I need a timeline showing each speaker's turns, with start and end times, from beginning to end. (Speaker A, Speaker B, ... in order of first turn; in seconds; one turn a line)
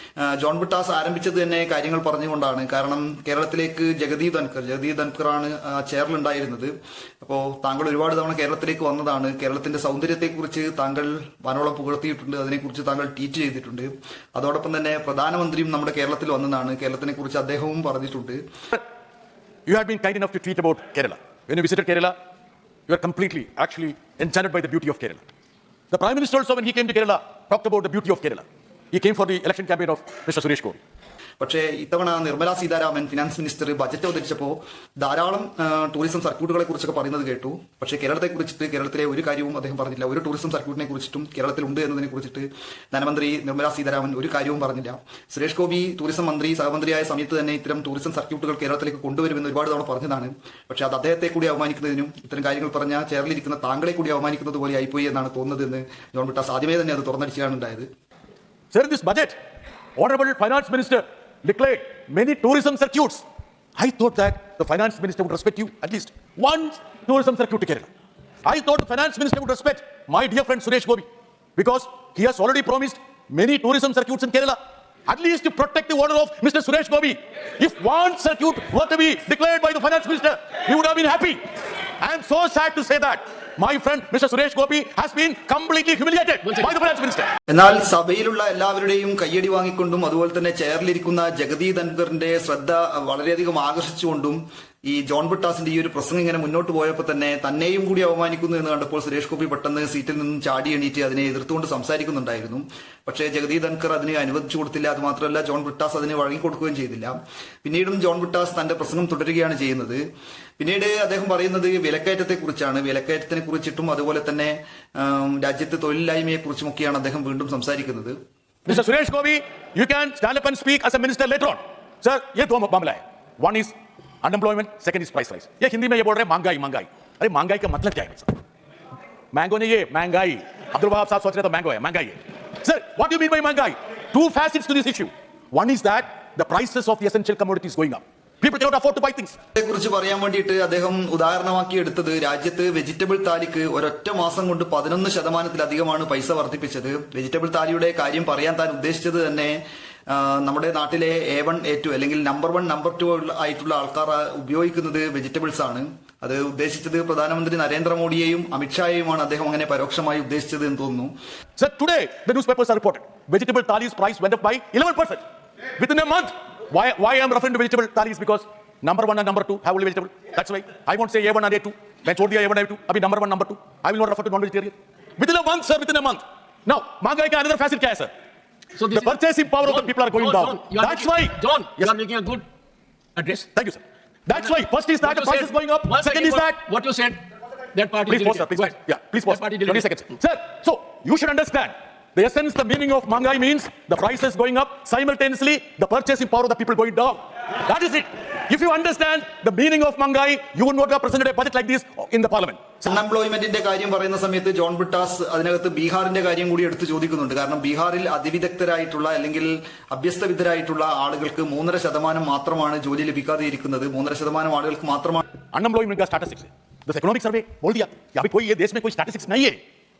Speaker A: 0.2-18.4
Speaker B: 19.6-22.1
Speaker B: 22.9-25.2
Speaker B: 25.9-30.8
Speaker A: 31.4-57.9
Speaker B: 58.7-59.4
Speaker B: 60.0-63.2
Speaker B: 63.8-67.9
Speaker B: 68.4-81.4
Speaker B: 82.0-87.3
Speaker A: 87.5-110.0
Speaker A: 110.6-118.2
Speaker B: 118.7-128.3
Speaker B: 129.3-139.3
Speaker A: 139.5-149.6
Speaker A: 150.1-161.1
Speaker B: 161.6-165.2
Speaker B: 165.8-178.1
Speaker C: 178.8-179.1
Speaker B: 178.8-182.0
Speaker C: 179.8-182.4
Speaker C: 183.2-183.4
Speaker B: 183.5-186.6
Speaker C: 185.0-187.2
Speaker C: 187.7-188.7
Speaker B: 188.1-202.8
Speaker C: 189.3-189.8
Speaker A: 202.8-215.2
Speaker B: 215.5-219.6